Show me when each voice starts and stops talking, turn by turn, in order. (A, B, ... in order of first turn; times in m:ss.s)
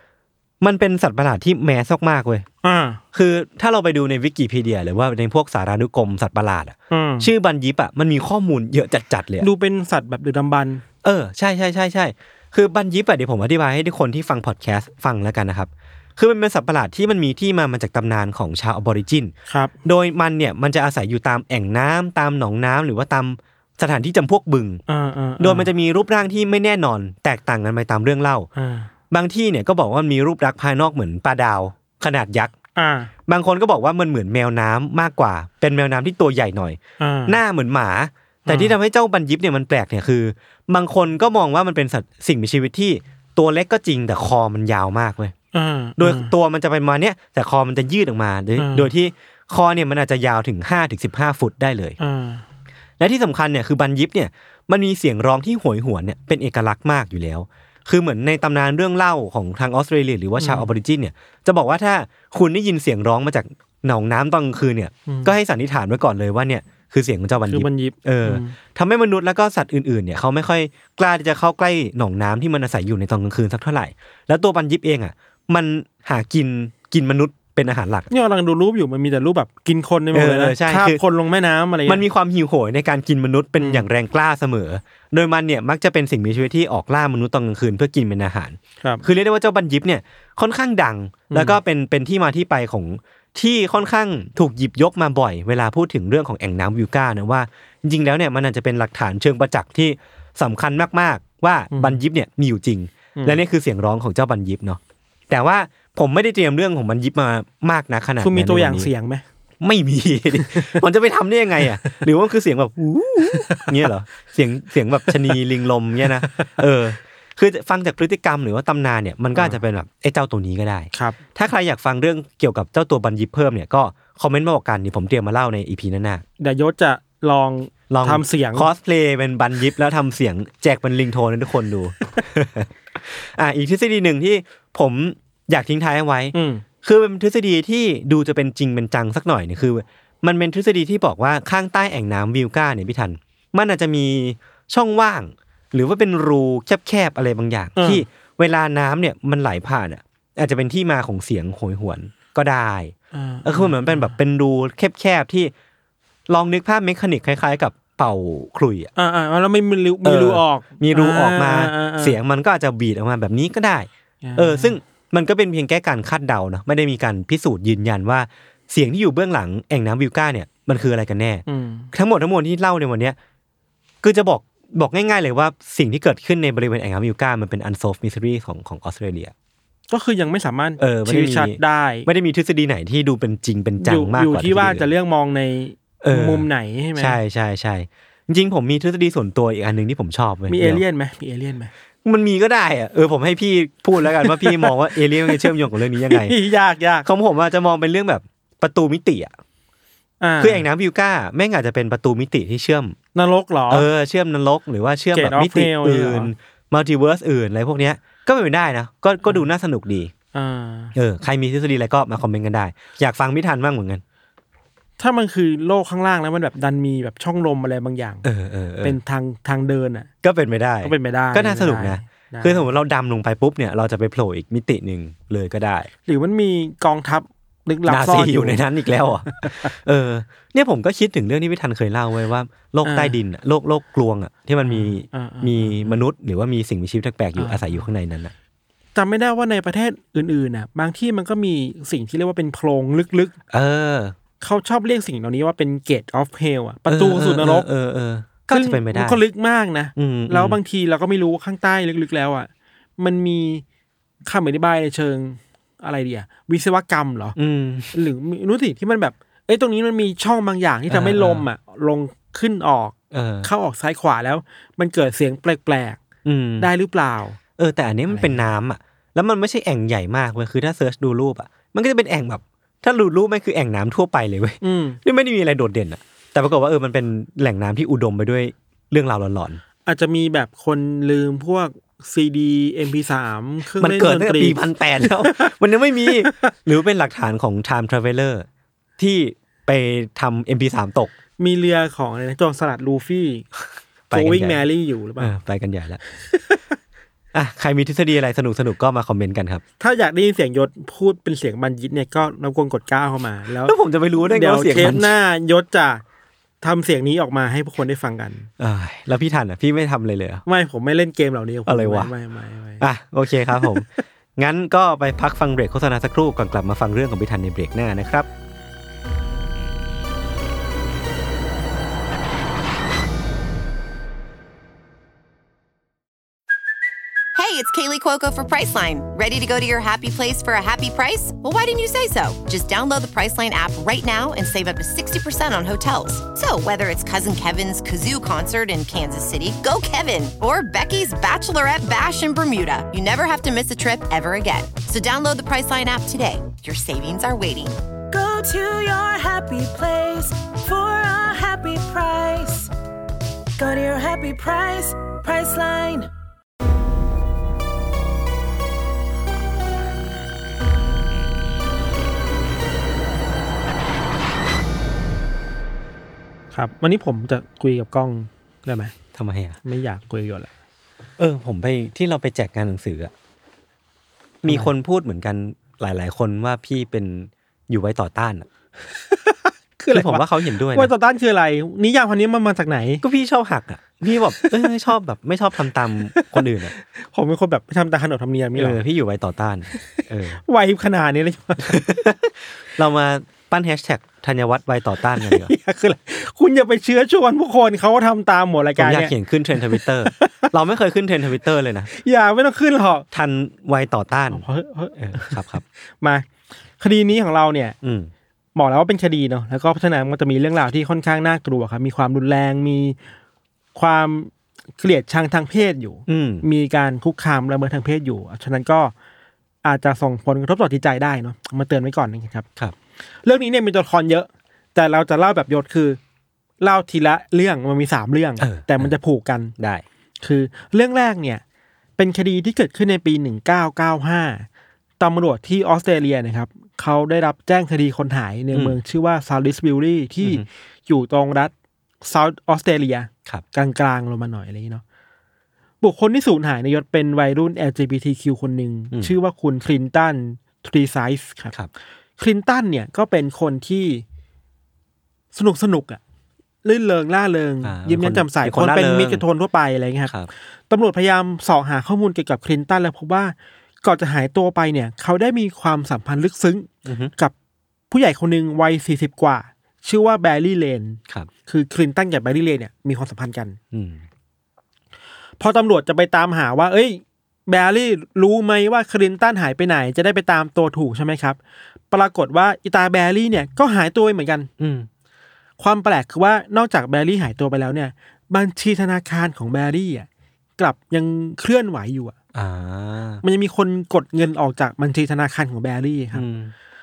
0:00.6-0:02.4 A
0:02.6-0:03.0 B
0:03.1-0:09.5 A
0:06.9-0:07.3 B
0:09.4-0:10.8 B
0:11.0-0:19.3 A
0:19.8-0:24.8 A
0:24.9-0:25.7 B
0:25.4-0:28.5 A
0:28.6-0:28.9 B
0:29.1-0:32.5 A
0:32.8-0:33.1 B
0:33.3-0:45.3 A
0:37.0-0:37.4 B
0:38.5-0:38.8 B
0:45.5-0:46.3 B
0:46.0-0:52.0 A
0:48.6-0:48.9 B
0:52.0-0:52.4 B
0:53.0-1:18.1 A
1:00.4-1:00.7 B
1:05.1-1:05.3 B
1:07.5-1:08.6 B
1:18.1-1:22.0 B
1:20.1-1:21.0 A
1:21.8-1:48.9 A
1:23.6-1:23.8 B
1:31.3-1:31.6 B
1:41.7-1:42.0 B
1:48.2-1:49.2 B
1:49.6-2:06.2 A
1:50.4-1:50.8 B
1:53.3-1:53.7 B
1:55.1-1:55.4 B
1:56.2-1:56.5 B
2:00.9-2:01.2 B
2:06.4-2:08.7 B
2:07.9-2:35.5 A
2:16.3-2:16.6 B
2:27.8-2:28.0 B
2:33.1-2:34.1 B
2:36.3-2:38.9 A
2:39.0-2:42.2 B
2:40.0-2:53.2 A
2:44.2-2:44.8 B
2:51.5-2:51.9 B
2:54.0-2:59.3 A
2:59.9-3:02.1 B
3:00.8-3:04.9 A
3:03.8-3:07.2 B
3:06.0-3:10.8 A
3:10.5-3:11.7 B
3:12.0-3:16.3 A
3:14.1-3:17.0 B
3:17.0-3:19.3 A
3:20.2-3:20.6 B
3:20.4-3:23.0 A
3:23.1-3:23.9 B
3:23.7-3:30.1 A
3:25.1-3:26.3 B
3:30.3-3:30.9 B
3:30.9-3:34.0 A
3:35.0-3:38.2 B
3:38.2-3:39.0 A
3:38.8-3:40.1 B
3:40.2-3:45.9 A
3:40.8-3:42.6 B
3:46.0-3:48.6 B
3:47.9-3:58.3 A
3:49.3-3:49.7 B
3:52.8-3:53.2 B
3:54.6-3:56.0 B
3:57.4-3:57.8 B
3:58.9-4:03.3 B
4:03.5-4:04.1 A
4:04.4-4:07.7 B
4:06.9-4:09.2 A
4:08.5-4:13.6 B
4:09.9-4:10.6 A
4:14.2-4:17.4 B
4:17.4-4:18.0 A
4:17.9-4:26.0 B
4:20.9-4:21.4 A
4:23.1-4:23.5 A
4:26.2-4:26.7 A
4:26.6-4:27.4 B
4:27.6-4:39.6 A
4:28.1-4:28.4 B
4:34.6-4:35.0 B
4:39.8-4:45.5 B
4:43.7-4:48.4 A
4:46.0-4:46.5 B
4:49.0-4:51.1 A
4:51.4-4:53.4 B
4:54.1-4:54.6 A
4:54.1-4:55.3 B
4:55.2-4:56.0 A
4:57.3-4:59.6 A
4:59.8-5:06.0 B
5:03.6-5:05.2 A
5:06.6-5:08.5 B
5:08.6-5:10.4 A
5:10.4-5:12.8 B
5:11.6-5:12.1 A
5:12.8-5:18.3 A
5:13.5-5:13.8 B
5:27.3-5:47.8 C
5:48.1-5:52.7 D
5:53.6-5:56.1 D
6:06.5-6:08.9 B
6:09.1-6:09.6 A
6:09.6-6:10.5 B
6:11.2-6:13.1 A
6:14.4-6:18.5 A
6:19.1-6:23.0 B
6:19.9-6:20.9 A
6:23.0-6:26.7 A
6:24.4-6:24.6 B
6:26.1-6:28.8 B
6:28.6-6:30.4 A
6:30.4-6:32.0 B
6:31.7-6:35.5 A
6:35.2-6:40.5 B
6:38.8-6:41.9 A
6:41.9-6:43.0 B
6:43.1-6:44.4 A
6:44.3-6:46.3 B
6:45.0-6:45.6 A
6:46.8-6:47.8 B
6:47.8-6:48.1 A
6:48.5-6:53.0 B
6:53.7-6:58.9 B
6:56.1-6:56.4 A
6:59.6-7:02.4 B
7:03.2-7:06.0 B
7:06.6-7:09.5 B
7:08.4-7:08.9 A
7:09.6-7:09.8 A
7:10.2-7:11.4 B
7:12.0-7:14.4 B
7:15.0-7:21.5 B
7:18.5-7:18.8 A
7:20.2-7:20.5 A
7:22.0-7:24.8 B
7:25.8-7:31.5 B
7:32.2-7:34.0 B
7:35.3-7:36.0 B
7:36.6-7:40.1 B
7:37.6-7:39.2 A
7:40.7-7:47.3 B
7:46.8-7:47.1 A
7:47.9-7:53.6 B
7:53.7-7:54.0 A
7:55.4-8:01.4 B
8:01.9-8:04.5 B
8:04.6-8:04.9 A
8:05.6-8:10.1 B
8:10.6-8:12.1 B
8:12.3-8:13.2 A
8:13.2-8:16.2 B
8:16.1-8:16.5 A